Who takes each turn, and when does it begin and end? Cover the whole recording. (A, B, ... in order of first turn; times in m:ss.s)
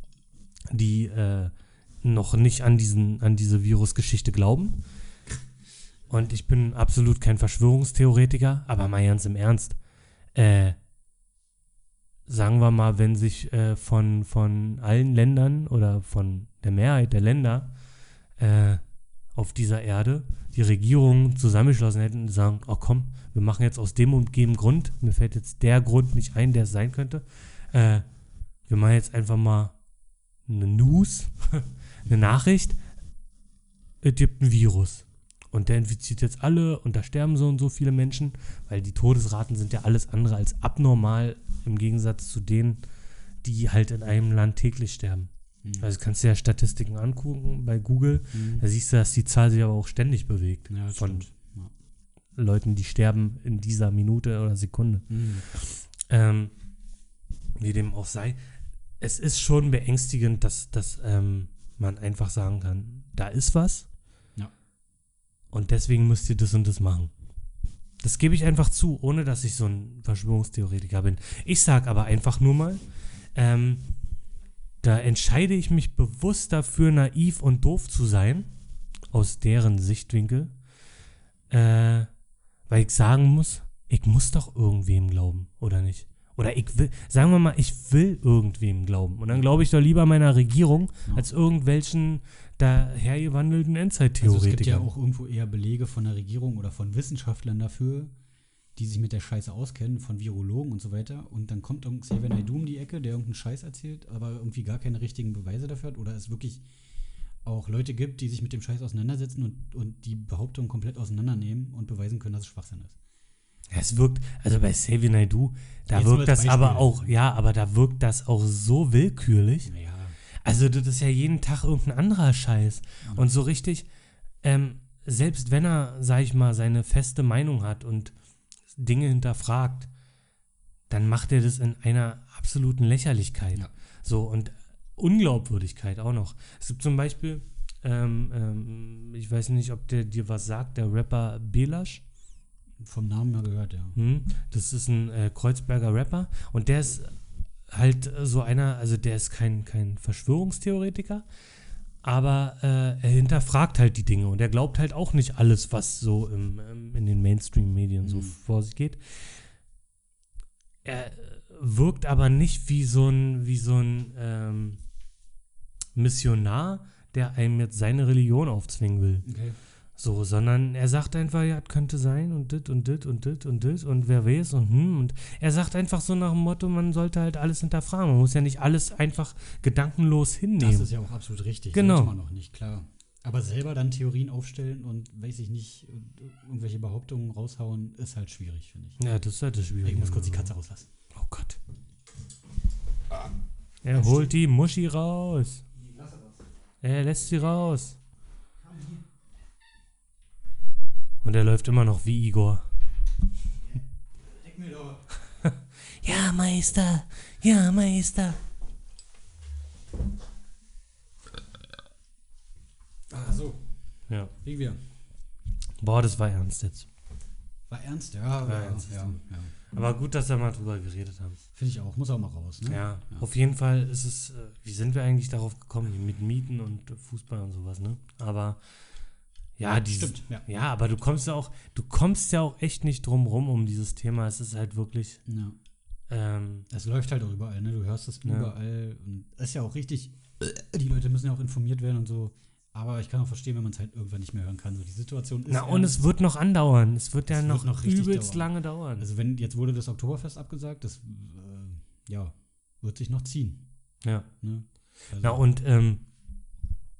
0:00.7-0:04.8 A
0:06.1-0:09.8 A
0:10.4-0:10.8 A
0:12.3-0:17.7 A
0:18.4-0:18.8 A
0:19.3-0:28.0 A
0:28.7-0:29.8 A
0:30.5-0:32.8 A
0:34.0-0:42.8 A
0:43.4-0:45.3 A
0:45.6-0:45.9 B
0:45.8-0:51.2 A
0:48.3-0:48.6 B
0:50.7-0:51.7 B
0:52.4-0:56.5 A
0:55.1-0:55.5 B
0:57.6-0:58.4 A
0:59.0-1:03.9 A
1:05.5-1:07.1 A
1:08.0-1:12.8 A
1:13.4-1:13.9 A
1:14.8-1:18.5 A
1:19.1-1:20.5 A
1:21.5-1:22.1 A
1:22.7-1:34.9 A
1:34.2-1:38.1 B
1:38.8-1:46.6 B
1:47.4-1:53.0 B
1:53.7-1:59.7 A
1:55.9-1:57.1 B
1:59.6-2:00.2 B
2:00.4-2:03.9 A
2:04.4-2:08.1 A
2:08.7-2:09.9 A
2:10.9-2:22.0 A
2:22.8-2:24.0 B
2:24.0-2:27.2 A
2:27.7-2:31.2 A
2:32.0-2:39.3 A
2:38.0-2:38.4 B
2:40.8-2:44.8 A
2:46.0-2:49.3 A
2:49.2-2:49.6 B
2:50.0-3:00.9 A
3:00.6-3:09.0 B
3:01.7-3:02.1 A
3:09.0-3:10.5 A
3:09.8-3:10.9 B
3:11.1-3:11.6 A
3:13.8-3:15.6 A
3:13.9-3:14.3 B
3:15.8-3:16.4 B
3:16.8-3:18.0 A
3:18.7-3:19.0 B
3:21.2-3:22.7 A
3:24.2-3:25.1 B
3:25.4-3:28.4 A
3:33.1-3:33.7 B
3:34.4-3:34.8 B
3:35.8-3:36.9 A
3:37.7-3:39.5 B
3:38.4-3:41.4 A
3:41.5-3:43.3 B
3:42.7-3:48.6 A
3:49.6-3:55.2 A
3:49.9-3:50.5 B
3:55.3-3:55.6 B
3:56.1-3:56.7 A
3:56.7-4:06.1 B
3:58.2-3:58.5 A
4:05.5-4:09.1 A
4:07.3-4:13.7 B
4:14.0-4:14.3 A
4:14.4-4:15.5 B
4:15.2-4:16.0 A